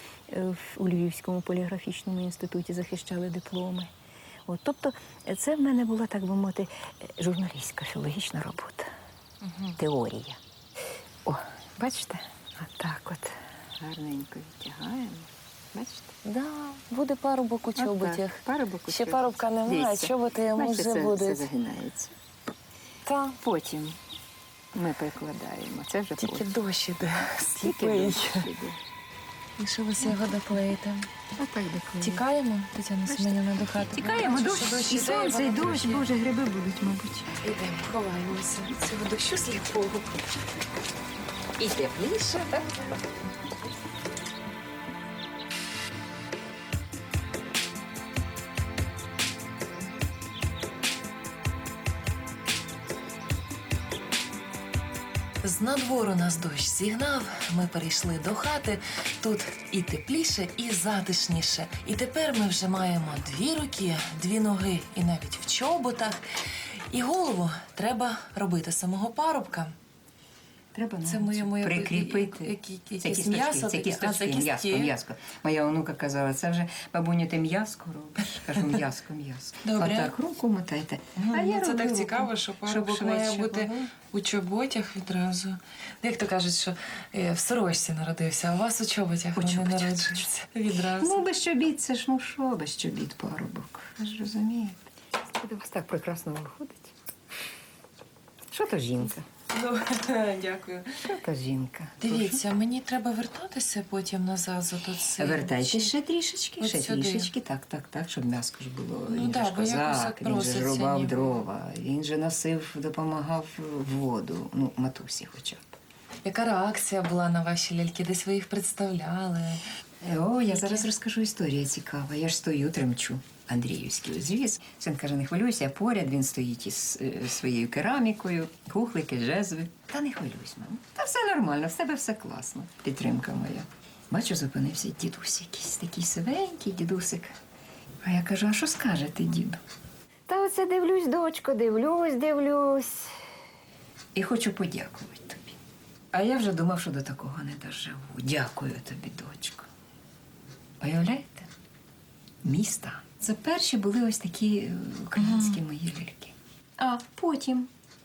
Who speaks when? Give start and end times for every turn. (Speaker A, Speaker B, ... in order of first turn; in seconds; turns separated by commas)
Speaker A: 0.3-3.9, Speaker A: 4.5-8.9, Speaker B: 9.4-9.8, Speaker A: 9.8-10.4, Speaker A: 11.2-16.1, Speaker B: 16.2-21.5, Speaker A: 17.7-22.1, Speaker B: 23.1-23.4, Speaker A: 23.4-24.0, Speaker A: 24.7-26.5, Speaker B: 26.2-28.5, Speaker A: 27.5-28.8, Speaker B: 29.6-31.1, Speaker A: 31.4-32.2, Speaker B: 32.0-36.0, Speaker A: 33.0-37.4, Speaker B: 37.4-40.1, Speaker A: 41.6-42.8, Speaker B: 55.4-66.2, Speaker B: 66.9-69.7, Speaker A: 70.7-83.9, Speaker B: 71.0-74.9, Speaker B: 78.4-78.8, Speaker B: 79.6-80.2, Speaker B: 81.2-91.2, Speaker A: 89.3-90.2, Speaker A: 90.8-96.9, Speaker A: 98.5-99.3, Speaker B: 99.5-101.0, Speaker A: 101.0-102.4, Speaker B: 102.0-105.9, Speaker A: 105.2-115.7, Speaker B: 106.6-107.3, Speaker B: 109.1-111.4, Speaker B: 116.2-119.6, Speaker A: 120.0-137.3, Speaker B: 120.4-120.9, Speaker A: 138.0-139.6, Speaker A: 140.3-143.1, Speaker A: 144.1-145.6, Speaker A: 146.1-149.7, Speaker A: 150.8-151.5, Speaker A: 152.4-157.7, Speaker B: 155.2-155.5